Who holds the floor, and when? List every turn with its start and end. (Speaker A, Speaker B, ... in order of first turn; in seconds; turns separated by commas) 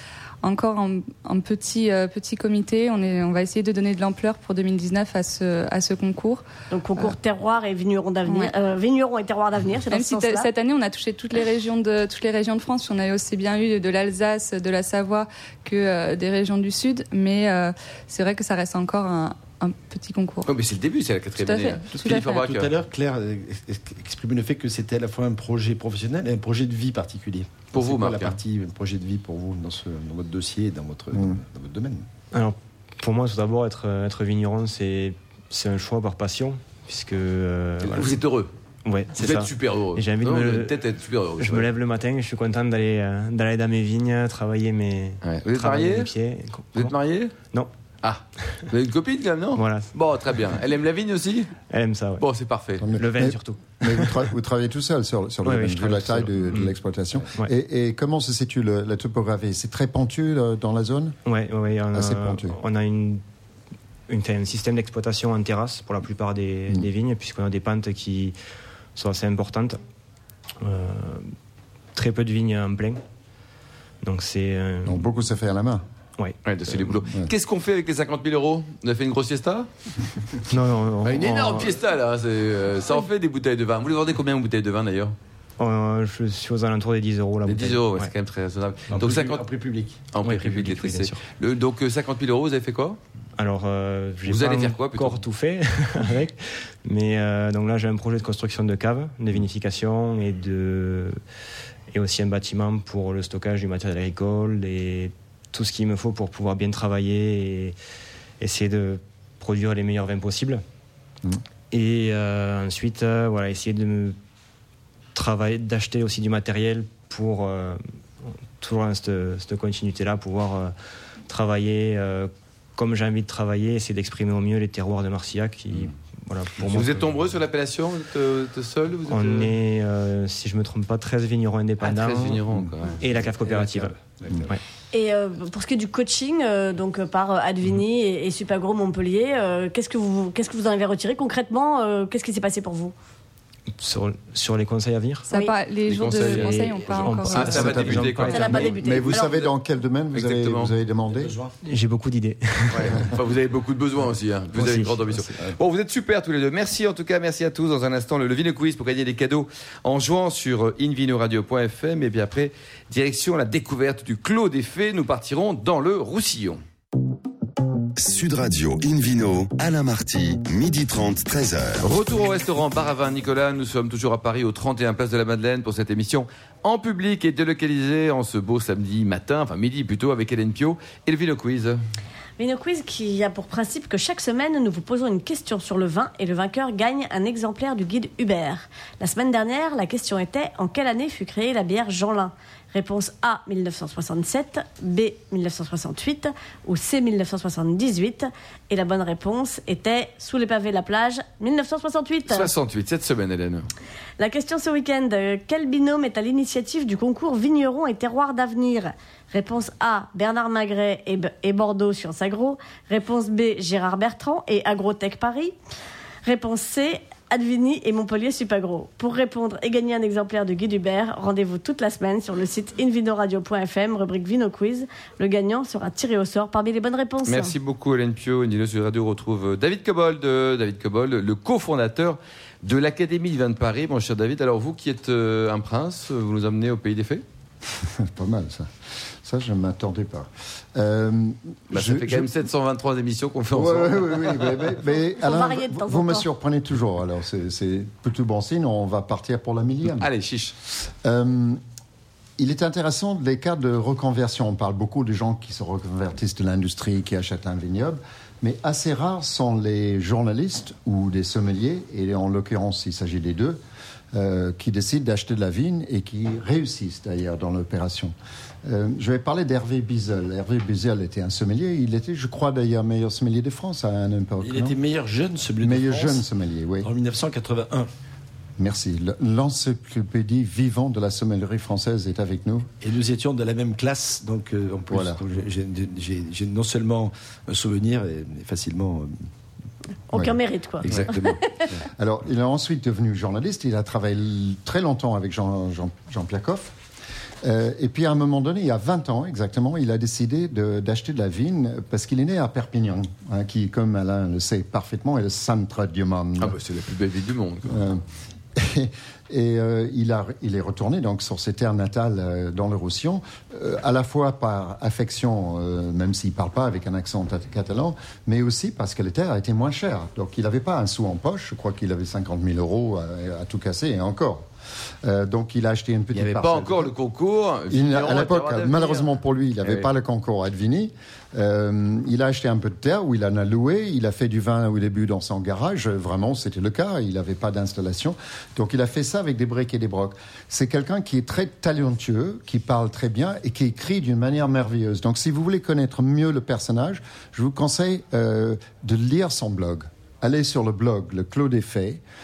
Speaker A: 0.4-6.4, Speaker B: 6.7-10.5, Speaker A: 8.2-8.5, Speaker A: 9.9-20.5, Speaker C: 20.4-22.7, Speaker A: 21.4-22.5, Speaker D: 22.0-32.0, Speaker C: 27.7-28.4, Speaker E: 31.1-31.4, Speaker F: 32.3-38.2, Speaker C: 37.8-38.5, Speaker F: 38.8-40.8, Speaker C: 39.1-41.7, Speaker F: 41.4-46.9, Speaker C: 45.2-46.1, Speaker C: 46.7-47.3, Speaker C: 48.0-51.5, Speaker F: 49.5-49.9, Speaker F: 51.7-52.2, Speaker C: 52.2-52.8, Speaker E: 52.8-61.1, Speaker F: 52.9-54.2, Speaker F: 55.4-56.7, Speaker F: 61.2-63.2, Speaker E: 61.9-62.6, Speaker F: 64.1-68.3, Speaker F: 69.0-69.8, Speaker F: 70.6-71.3, Speaker F: 71.9-73.0, Speaker F: 74.0-75.0, Speaker E: 74.8-75.8, Speaker C: 76.5-79.7, Speaker F: 80.5-81.8, Speaker C: 81.0-85.1, Speaker F: 85.6-88.1, Speaker C: 87.5-89.4, Speaker D: 88.9-90.1, Speaker C: 90.1-93.0, Speaker F: 90.2-91.2, Speaker F: 93.4-101.2, Speaker C: 94.2-95.2, Speaker F: 101.9-107.8, Speaker F: 108.4-110.6, Speaker F: 111.7-114.2, Speaker F: 115.1-117.8, Speaker F: 118.6-120.7, Speaker F: 121.3-127.2, Speaker C: 126.6-129.5, Speaker F: 129.1-132.5, Speaker C: 131.8-133.6, Speaker F: 133.0-134.6, Speaker B: 134.9-142.9, Speaker F: 143.8-145.3, Speaker A: 145.3-147.8, Speaker C: 145.9-149.5, Speaker F: 146.1-148.6, Speaker E: 147.5-151.3, Speaker B: 148.3-149.4, Speaker C: 150.1-150.7, Speaker D: 151.1-151.5, Speaker F: 151.6-153.2, Speaker C: 152.7-166.6, Speaker F: 154.6-155.2, Speaker G: 168.0-171.9, Speaker C: 171.8-181.8, Speaker B: 182.4-202.5, Speaker C: 202.3-203.7, Speaker B: 204.2-215.5, Speaker B: 216.2-227.5, Speaker C: 227.3-237.2, Speaker E: 237.8-238.7, Speaker E: 239.2-242.3, Speaker C: 241.7-244.7, Speaker E: 243.5-250.1, Speaker B: 245.2-246.2, Speaker C: 249.9-250.5, Speaker E: 251.0-251.6, Speaker E: 252.4-263.6, Speaker E: 264.1-268.1, Speaker E: 268.6-274.8, Speaker D: 274.4-276.2, Speaker E: 275.6-276.9, Speaker D: 276.8-277.9, Speaker E: 278.6-282.7, Speaker D: 282.8-289.1, Speaker E: 284.9-285.2, Speaker B: 290.1-291.7, Speaker D: 290.8-291.4, Speaker E: 292.0-296.7, Speaker E: 297.4-306.6, Speaker C: 306.4-307.9, Speaker E: 307.7-308.0, Speaker E: 308.5-324.4, Speaker E: 325.0-326.9, Speaker C: 326.1-329.9, Speaker E: 327.7-352.0